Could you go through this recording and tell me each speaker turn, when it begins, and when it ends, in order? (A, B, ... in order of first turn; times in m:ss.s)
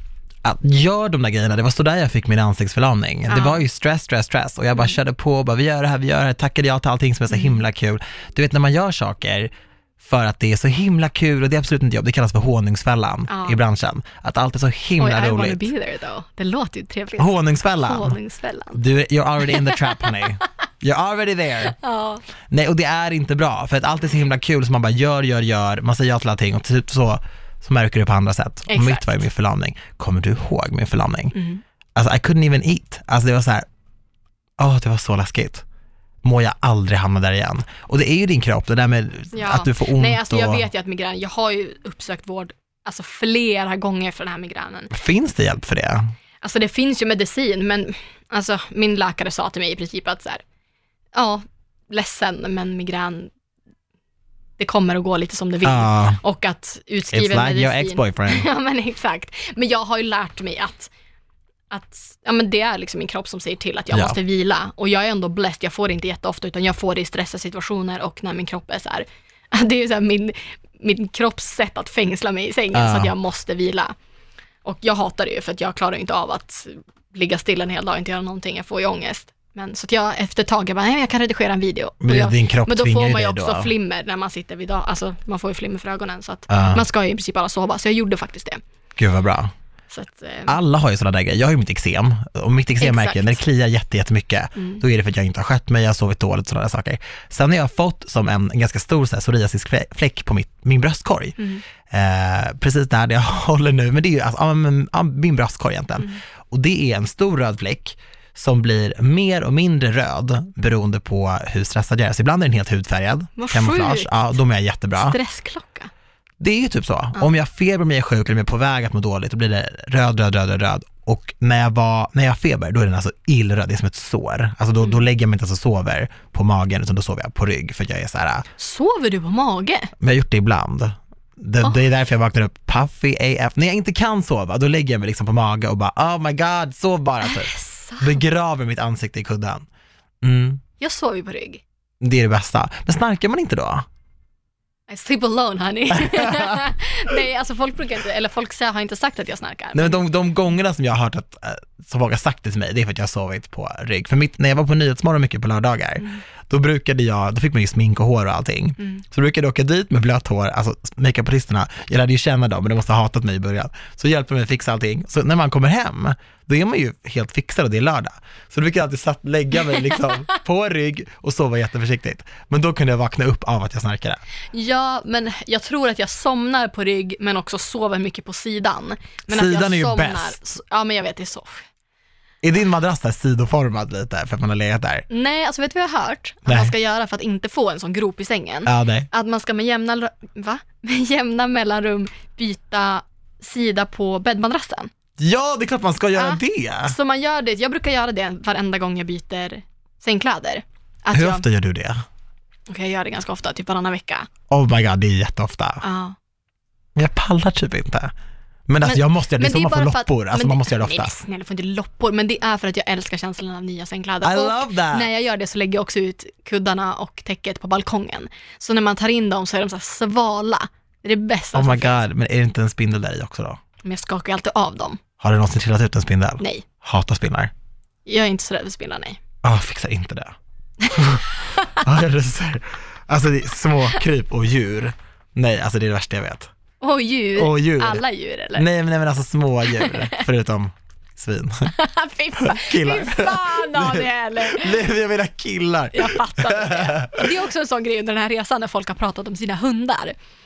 0:00.4-0:15.7 A
0:03.3-0:03.6 B
0:07.3-0:07.6 B
0:13.3-0:13.6 B
0:15.0-0:18.8 B
0:17.2-0:18.2 A
0:18.7-0:21.8 A
0:19.4-0:20.3 B
0:21.7-0:22.2 B
0:22.5-0:31.4 A
0:28.7-0:29.2 B
0:31.3-0:31.6 B
0:31.9-0:33.6 A
0:34.6-0:35.6 A
0:36.2-0:40.6 A
0:39.3-0:44.9 B
0:44.9-0:46.1 A
0:46.4-0:50.4 B
0:51.1-0:53.3 B
0:54.6-1:00.9 B
0:55.6-0:56.2 A
0:57.1-0:58.5 A
1:01.7-1:13.9 B
1:03.9-1:04.2 A
1:12.7-1:13.1 A
1:14.6-1:28.6 B
1:22.0-1:23.7 A
1:26.5-1:26.8 A
1:29.0-1:29.5 A
1:29.9-1:30.6 B
1:30.5-1:55.2 A
1:32.8-1:33.4 B
1:34.6-1:34.8 B
1:41.4-1:41.6 B
1:53.4-1:54.2 B
1:54.9-1:55.9 B
1:56.4-2:08.4 A
2:08.6-2:09.9 B
2:10.0-2:19.6 A
2:17.2-2:18.2 B
2:20.2-2:20.6 A
2:20.8-2:21.6 B
2:22.0-2:23.8 A
2:24.9-2:30.0 B
2:26.0-2:26.6 A
2:29.7-2:54.2 A
2:49.7-2:50.2 B
2:54.5-3:01.6 B
2:59.3-3:00.4 A
3:02.4-3:05.0 A
3:05.1-3:14.9 B
3:06.4-3:06.7 A
3:08.6-3:09.1 A
3:15.2-3:17.0 A
3:16.1-3:21.4 B
3:21.1-3:22.0 A
3:22.7-3:24.3 B
3:24.5-3:25.8 A
3:25.8-3:26.2 B
3:27.0-3:28.1 A
3:28.7-3:31.2 A
3:28.8-3:42.0 B
3:34.2-3:35.1 A
3:41.5-3:43.6 A
3:43.8-3:45.0 B
3:45.2-3:47.5 A
3:46.4-3:46.6 B
3:48.0-3:49.2 B
3:49.4-3:50.3 A
3:50.9-3:56.5 A
3:56.8-3:58.6 B
3:57.4-3:58.0 A
3:58.5-4:01.7 A
3:59.7-4:00.2 B
4:01.7-4:04.8 B
4:02.4-4:07.2 A
4:05.9-4:10.2 B